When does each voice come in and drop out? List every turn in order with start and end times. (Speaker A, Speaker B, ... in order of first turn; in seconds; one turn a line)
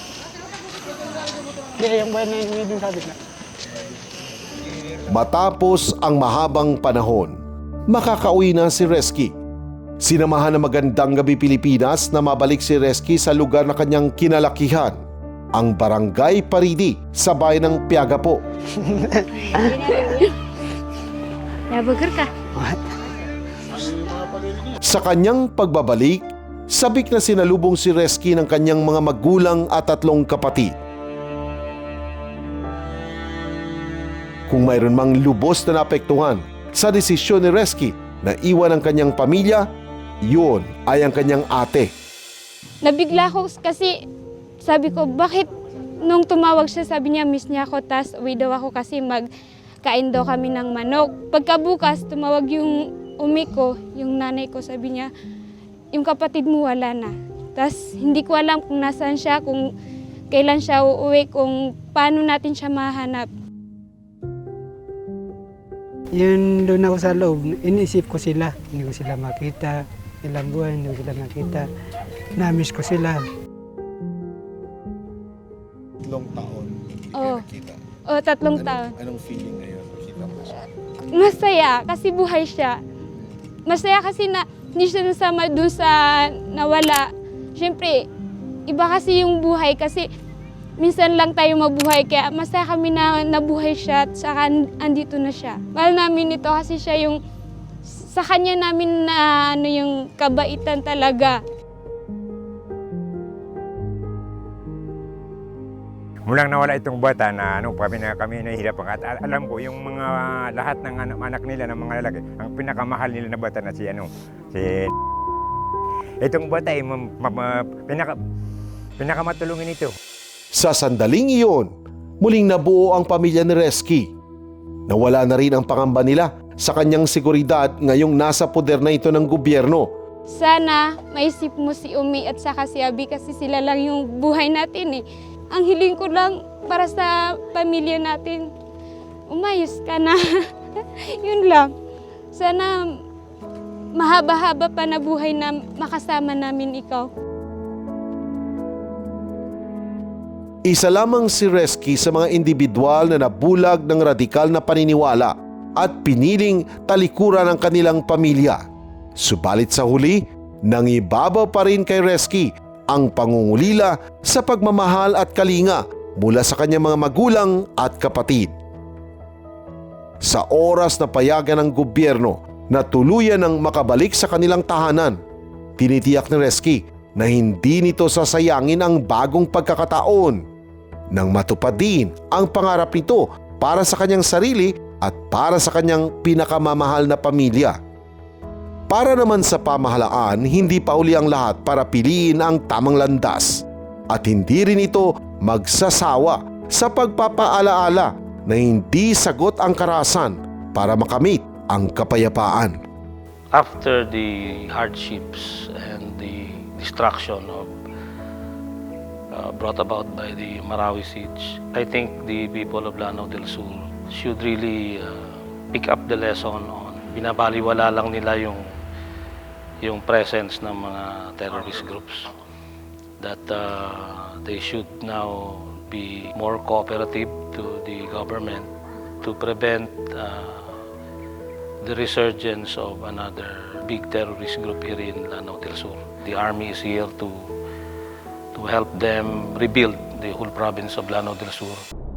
Speaker A: 1.8-3.1
Speaker B: 5.1-9.3
Speaker B: 10.0-15.0
Speaker B: 15.6-18.4
Speaker A: 18.8-19.7
Speaker C: 19.5-20.3
Speaker C: 21.7-22.3
Speaker B: 24.8-30.7
Speaker B: 34.5-39.6
Speaker B: 40.2-41.9
Speaker C: 42.8-44.0
Speaker C: 44.6-45.5
Speaker C: 46.0-49.3
Speaker C: 49.8-55.1
Speaker C: 55.9-59.7
Speaker C: 60.3-63.3
Speaker A: 66.1-71.7
Speaker A: 72.4-73.2
Speaker D: 76.0-77.8
Speaker C: 77.2-77.4
Speaker C: 78.1-78.9
Speaker D: 78.5-80.5
Speaker C: 81.1-82.8
Speaker C: 83.7-88.0
Speaker C: 88.7-90.1
Speaker C: 90.8-97.2
Speaker C: 97.9-101.4
Speaker E: 106.3-114.9
Speaker E: 116.2-118.2
Speaker E: 119.0-120.0
Speaker B: 120.5-121.7
Speaker B: 122.2-124.1
Speaker B: 124.9-129.9
Speaker C: 130.3-138.5
Speaker C: 139.3-141.7
Speaker C: 142.3-142.8
Speaker C: 143.9-147.1
Speaker B: 150.7-158.6
Speaker B: 159.2-168.5
Speaker B: 170.2-175.2
Speaker B: 175.8-180.4
Speaker B: 181.1-187.8
Speaker B: 188.9-202.8
Speaker F: 203.5-207.7
Speaker F: 209.3-218.7
Speaker F: 219.8-222.3
Speaker F: 223.2-228.7
Speaker F: 229.2-230.8
Speaker F: 231.8-237.5
Speaker F: 238.5-241.8